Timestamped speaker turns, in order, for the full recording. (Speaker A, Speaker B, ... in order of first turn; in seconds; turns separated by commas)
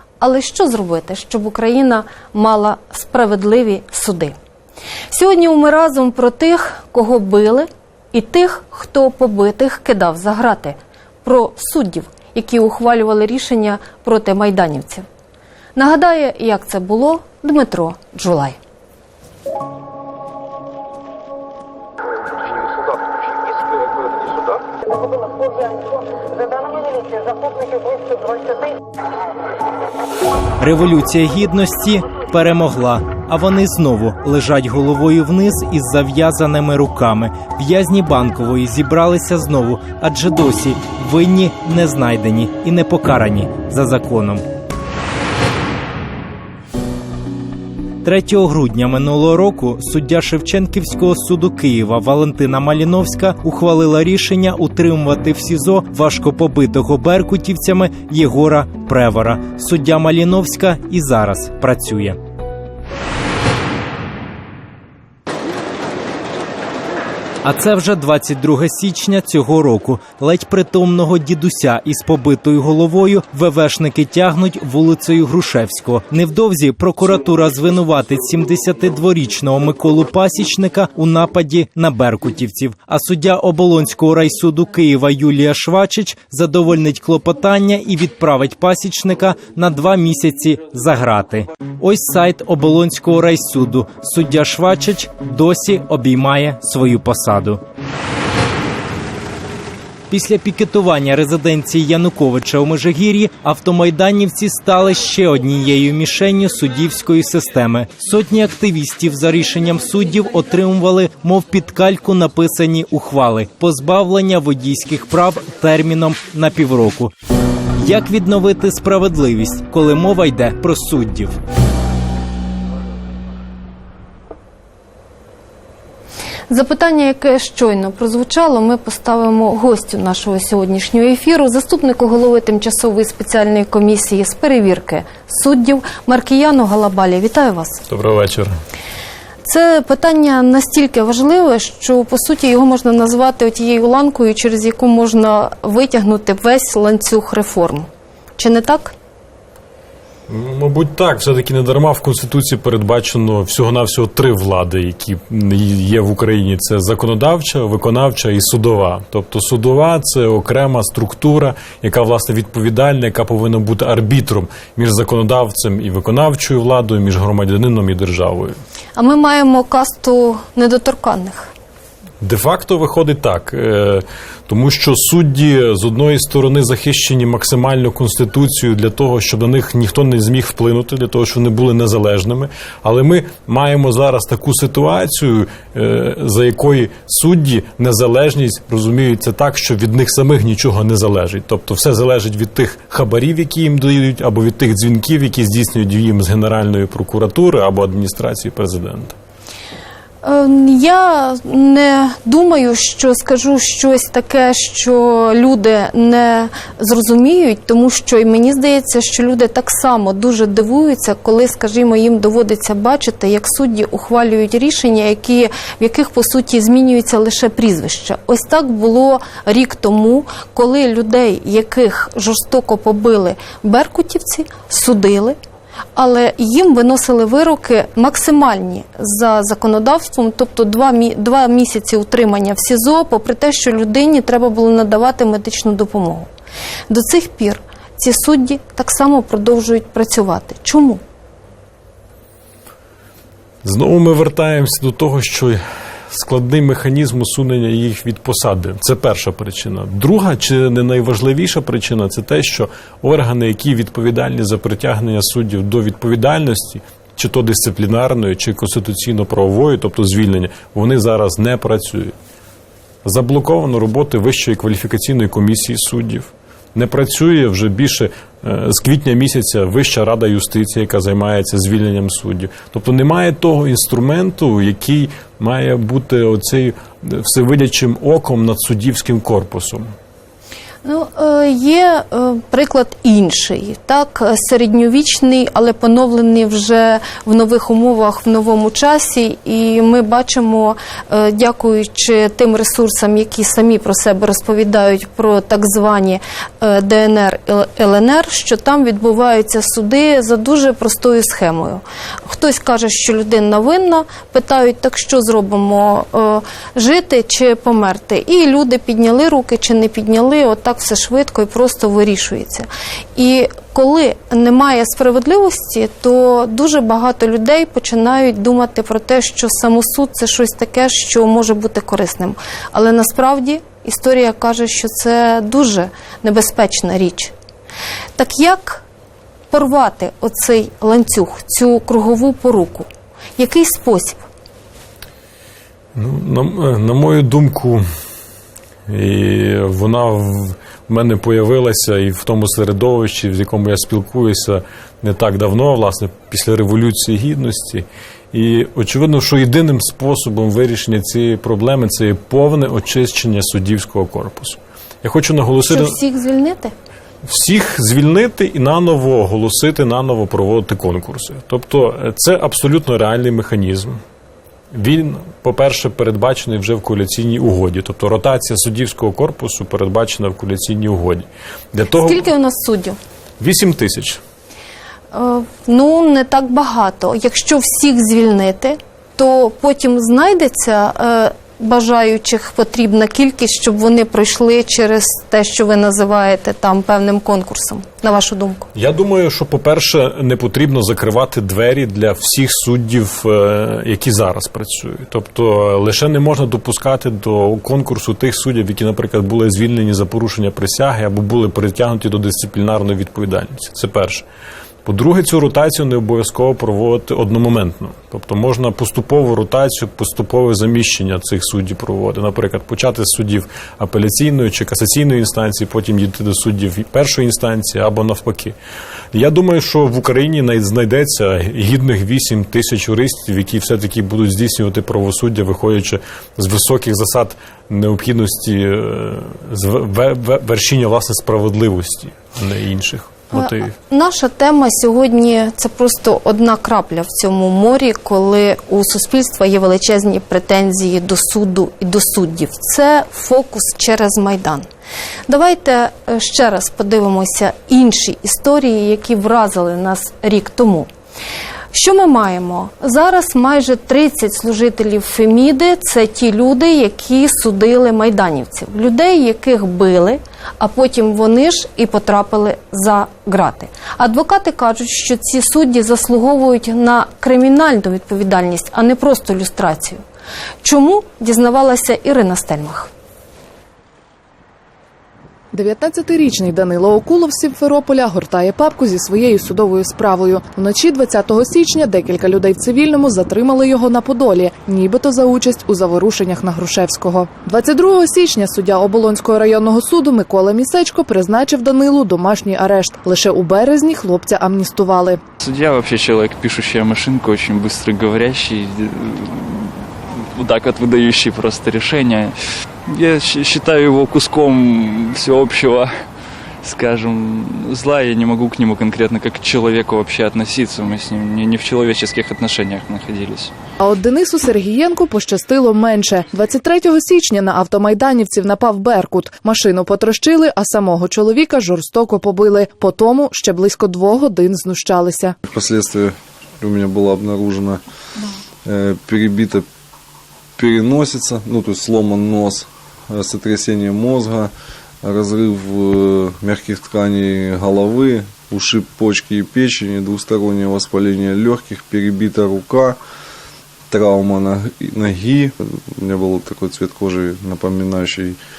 Speaker A: 0.2-4.3, Speaker A: 5.1-15.1, Speaker A: 15.8-18.6, Speaker B: 30.6-44.5, Speaker B: 48.0-62.2, Speaker B: 67.4-97.6, Speaker B: 100.1-117.1, Speaker B: 117.8-121.4, Speaker A: 126.5-137.8, Speaker C: 137.9-138.5, Speaker A: 139.4-148.9, Speaker C: 150.3-168.6, Speaker A: 169.0-171.5, Speaker C: 172.2-199.2, Speaker A: 200.2-225.4, Speaker A: 226.0-236.3, Speaker A: 236.9-241.0, Speaker C: 243.6-262.1, Speaker C: 263.0-279.9, Speaker A: 280.8-327.3, Speaker A: 328.2-328.8, Speaker A: 329.5-334.2, Speaker C: 335.9-337.8, Speaker C: 338.9-356.0, Speaker A: 355.7-356.7, Speaker C: 357.2-364.0, Speaker C: 364.7-372.2, Speaker A: 371.9-373.0, Speaker C: 373.4-374.2, Speaker A: 375.1-388.7, Speaker C: 388.7-404.2, Speaker C: 404.9-418.6, Speaker C: 419.1-433.7, Speaker A: 433.3-444.7, Speaker A: 445.3-450.9, Speaker A: 451.7-470.0, Speaker A: 470.6-472.9, Speaker D: 475.5-495.2, Speaker E: 495.4-505.9, Speaker E: 506.6-513.5, Speaker D: 513.8-525.4, Speaker F: 525.5-527.8, Speaker F: 528.6-529.7, Speaker F: 530.6-534.5, Speaker F: 535.0-543.0, Speaker F: 543.9-548.4